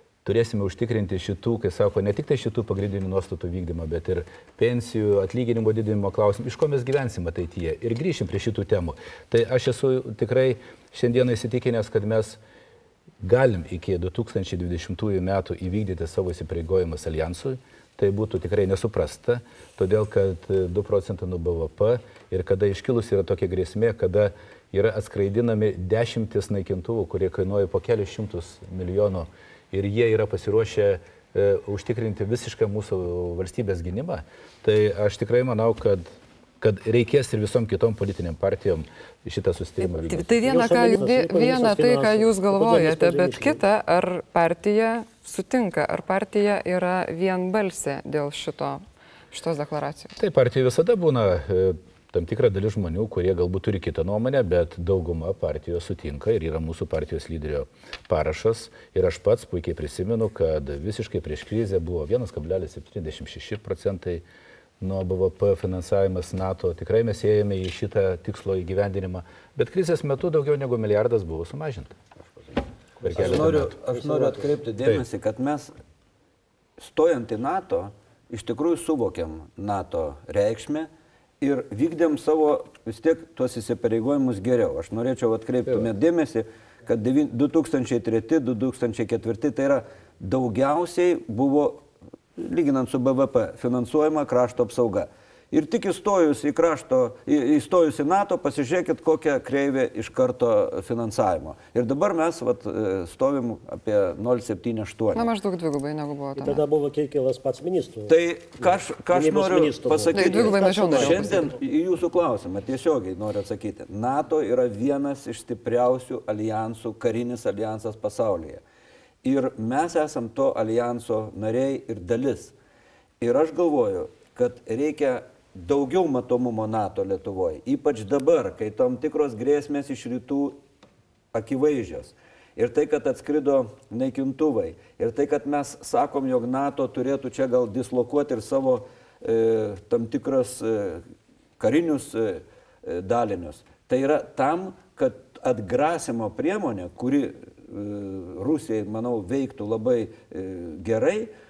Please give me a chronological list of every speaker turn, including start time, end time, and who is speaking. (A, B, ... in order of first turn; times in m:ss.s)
0:00.2-0:12.4 A
0:13.2-0:36.1 A
0:36.6-0:40.8 A
0:40.0-0:50.1 B
0:40.4-0:43.6 C
0:50.2-1:04.2 A
1:04.8-1:12.0 A
1:13.0-1:13.8 A
1:13.0-1:15.7 D
1:13.1-1:14.4 C
1:16.8-1:20.9 D
1:21.4-1:31.8 D
1:32.4-1:45.3 D
1:45.1-1:46.6 B
1:46.3-1:51.6 C
1:48.0-1:58.6 D
1:50.1-1:51.5 B
1:59.2-2:02.5 D
2:03.2-2:10.6 D
2:11.3-2:21.0 D
2:21.6-2:31.3 D